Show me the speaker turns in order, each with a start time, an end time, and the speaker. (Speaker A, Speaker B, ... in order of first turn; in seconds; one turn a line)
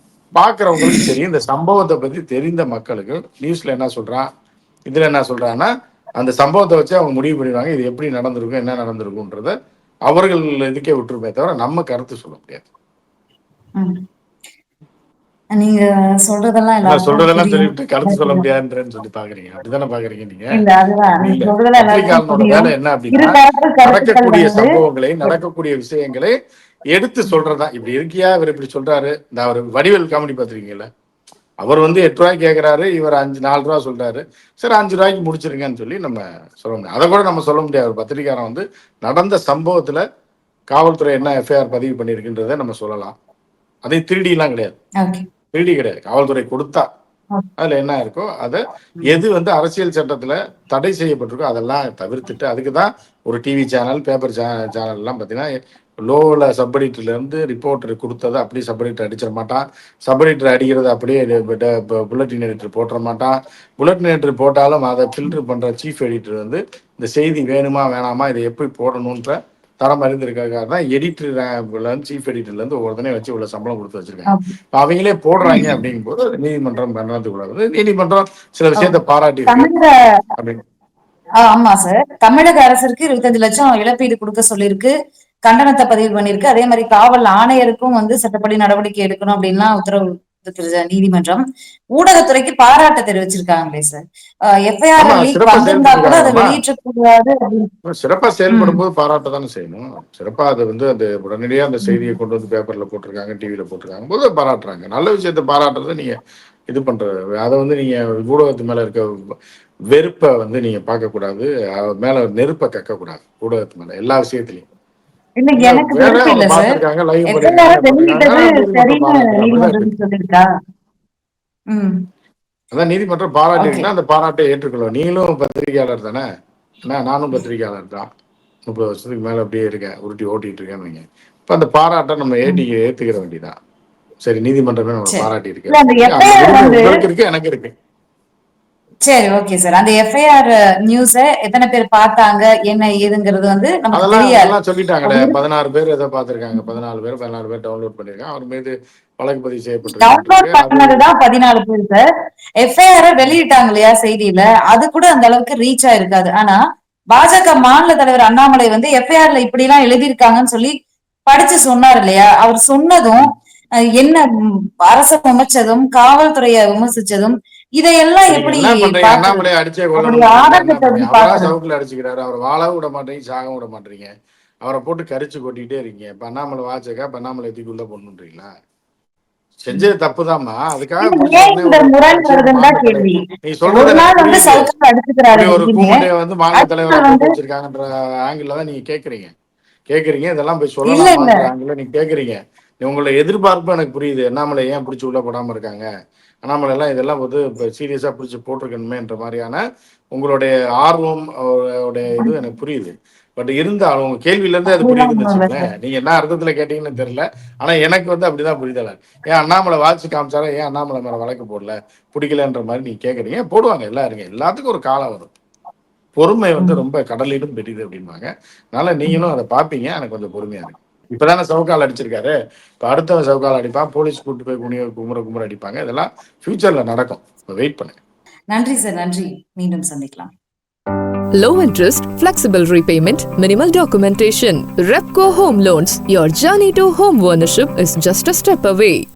Speaker A: 0.4-4.3
Speaker A: 4.9-9.5
Speaker A: 10.1-12.6
Speaker B: 15.5-18.4
Speaker A: 16.8-20.6
Speaker B: 20.6-24.7
Speaker A: 21.2-26.3
Speaker A: 26.9-30.9
Speaker A: 31.6-40.0
Speaker A: 40.7-43.1
Speaker A: 43.8-44.8
Speaker A: 45.5-46.9
Speaker A: 47.6-55.5
Speaker A: 56.0-79.8
Speaker B: 75.4-75.7
Speaker B: 78.8-79.9
Speaker A: 80.3-80.6
Speaker B: 81.4-84.9
Speaker B: 85.5-91.4
Speaker B: 92.0-94.0
Speaker B: 94.7-97.7
Speaker A: 95.0-96.6
Speaker A: 97.8-106.2
Speaker B: 98.5-98.8
Speaker B: 101.8-102.1
Speaker A: 106.7-109.0
Speaker A: 109.9-114.7
Speaker B: 115.4-116.8
Speaker A: 115.5-119.9
Speaker B: 117.3-120.5
Speaker B: 121.7-122.0
Speaker A: 122.7-126.2
Speaker B: 123.6-123.9
Speaker A: 126.8-128.1
Speaker A: 128.7-133.5
Speaker A: 134.2-137.7
Speaker B: 135.1-137.0
Speaker B: 139.0-145.3
Speaker A: 143.9-151.0
Speaker B: 150.0-152.0
Speaker B: 152.6-156.6
Speaker B: 157.1-160.7
Speaker B: 161.2-163.3
Speaker B: 164.0-164.2
Speaker B: 164.8-171.5
Speaker A: 168.3-174.1
Speaker A: 174.6-178.5
Speaker A: 179.6-184.7
Speaker B: 181.0-187.3
Speaker A: 185.3-189.3
Speaker A: 189.9-195.9
Speaker B: 190.8-191.5
Speaker A: 196.4-199.6
Speaker A: 200.1-215.3
Speaker B: 204.7-205.7
Speaker A: 216.2-228.0
Speaker B: 216.6-216.8
Speaker B: 228.5-230.3
Speaker C: 231.4-239.0